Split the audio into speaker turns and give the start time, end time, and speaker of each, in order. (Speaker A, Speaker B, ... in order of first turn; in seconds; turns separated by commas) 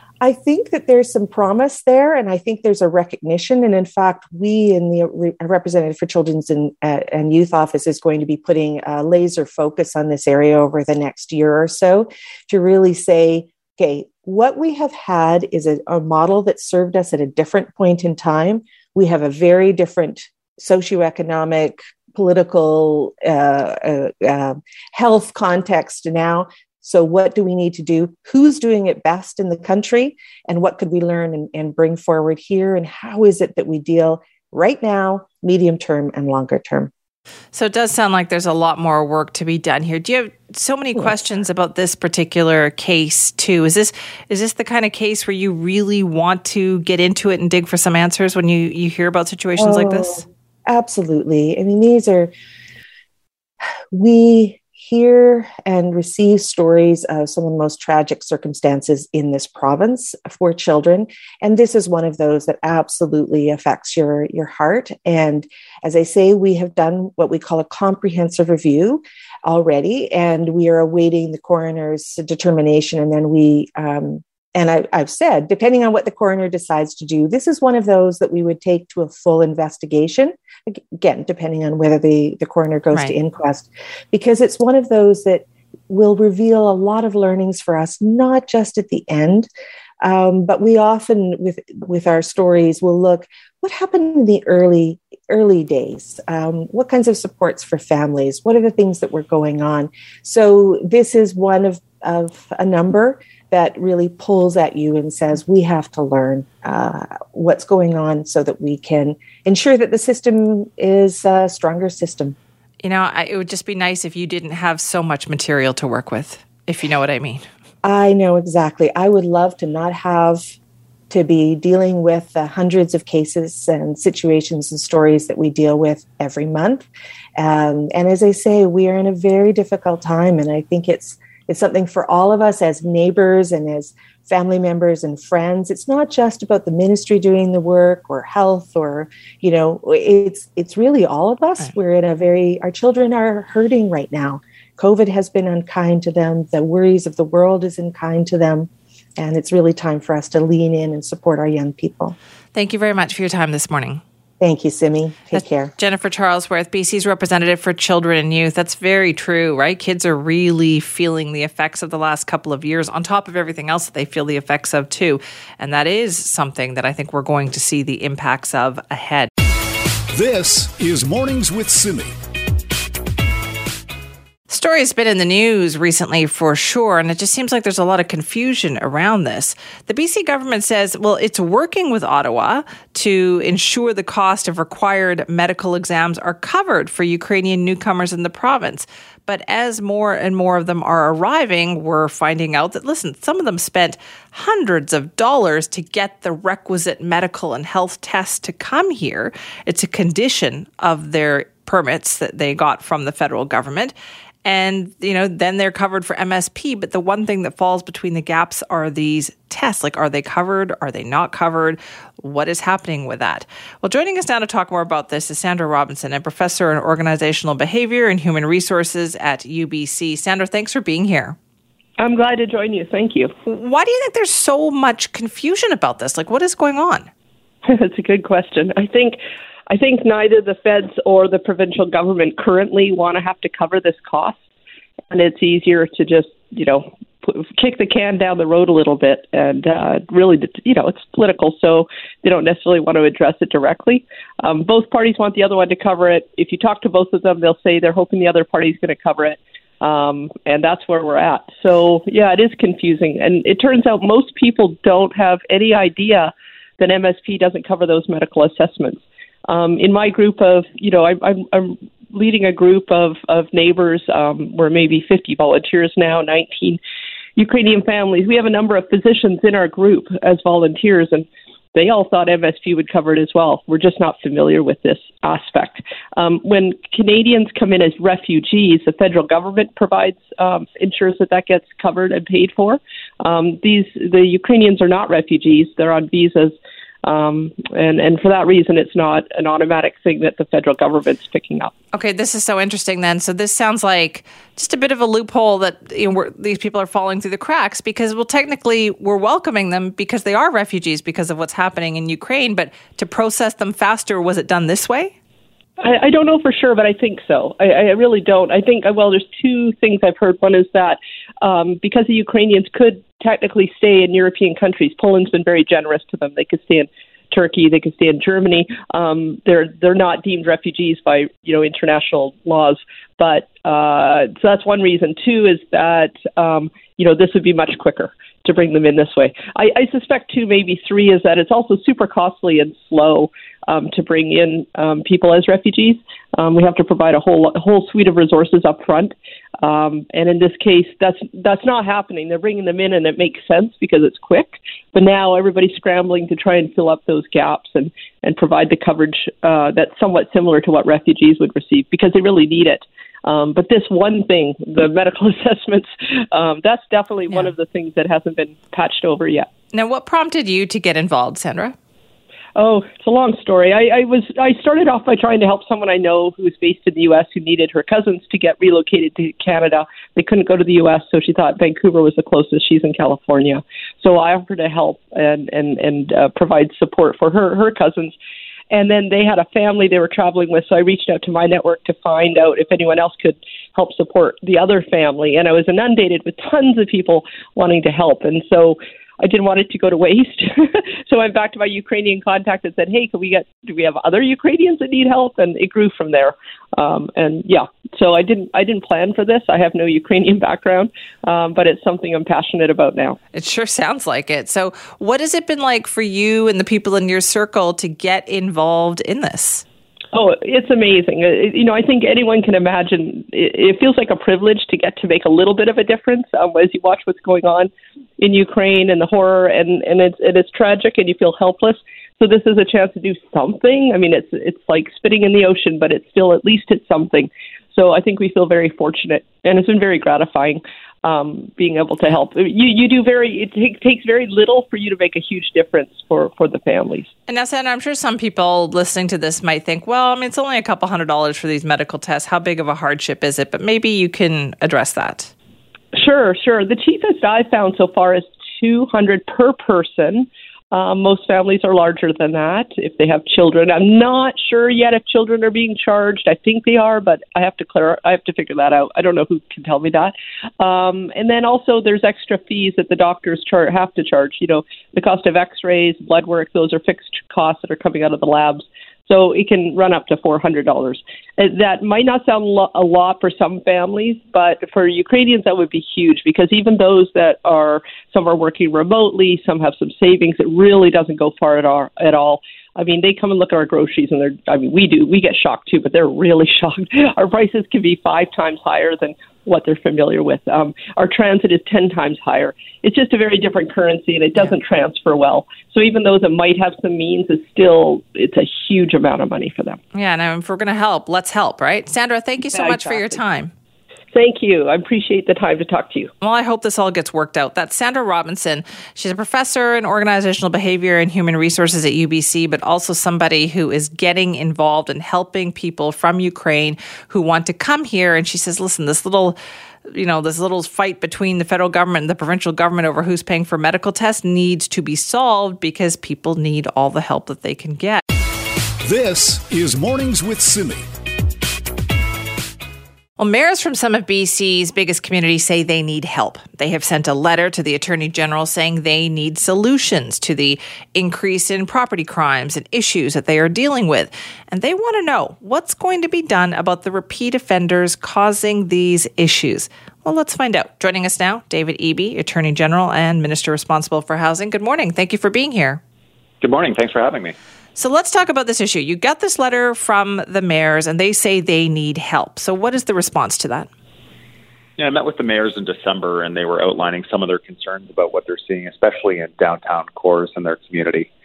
Speaker A: 0.2-36.9, Speaker B: 37.5-50.2, Speaker A: 49.6-52.3, Speaker A: 53.9-89.5, Speaker A: 90.0-112.3, Speaker B: 112.8-117.5, Speaker A: 117.8-120.5, Speaker A: 121.1-152.2, Speaker B: 152.5-154.0, Speaker A: 154.4-155.7, Speaker B: 155.3-169.3, Speaker C: 170.1-172.1, Speaker B: 174.5-203.9, Speaker B: 204.4-221.4, Speaker D: 222.0-223.3, Speaker B: 223.5-227.1, Speaker D: 227.6-234.4, Speaker D: 235.1-266.8, Speaker D: 267.4-291.7, Speaker B: 291.9-305.1, Speaker D: 305.8-359.5, Speaker B: 359.7-361.8, Speaker D: 362.6-378.1, Speaker D: 378.7-403.2, Speaker B: 403.3-409.6, Speaker D: 410.1-437.1, Speaker B: 437.3-445.3, Speaker D: 445.9-499.8, Speaker B: 499.9-503.5, Speaker D: 502.5-503.1, Speaker D: 504.1-506.1, Speaker B: 506.2-528.0, Speaker C: 528.8-530.9, Speaker B: 533.2-555.8, Speaker E: 556.4-557.4, Speaker B: 557.8-563.7, Speaker E: 564.8-571.1